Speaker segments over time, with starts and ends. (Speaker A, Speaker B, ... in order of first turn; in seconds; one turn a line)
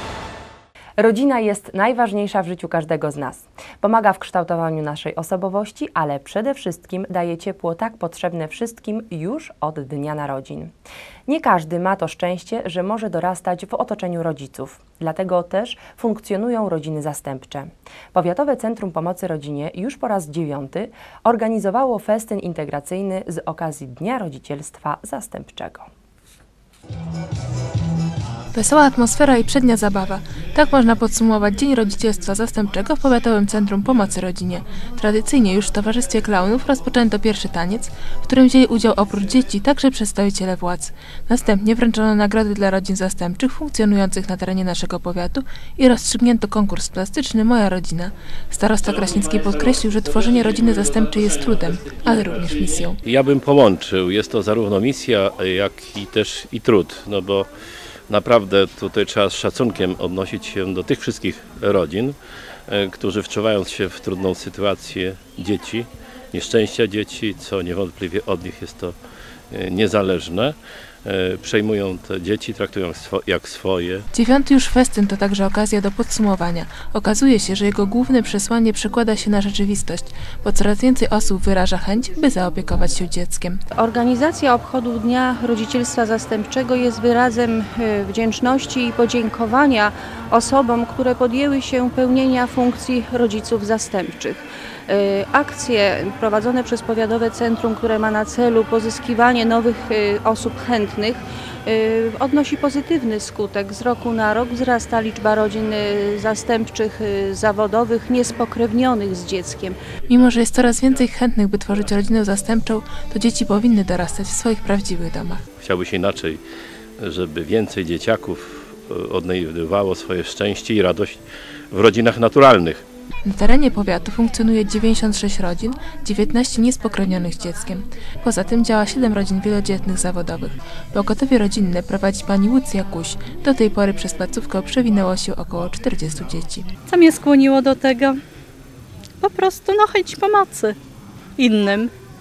Speaker A: 1.0-10.7
Speaker A: 11.3-25.9
Speaker B: 28.5-53.0
Speaker C: 53.0-57.5
Speaker C: 58.1-62.1
Speaker C: 62.7-69.0
Speaker C: 69.5-74.0
Speaker B: 74.1-83.6
Speaker D: 83.7-109.8
Speaker B: 110.1-115.4
Speaker C: 115.6-116.4
Speaker C: 117.0-121.2
Speaker C: 121.7-122.8
Speaker B: 123.2-136.7
Speaker E: 136.9-138.2
Speaker E: 139.2-140.8
Speaker E: 141.4-141.9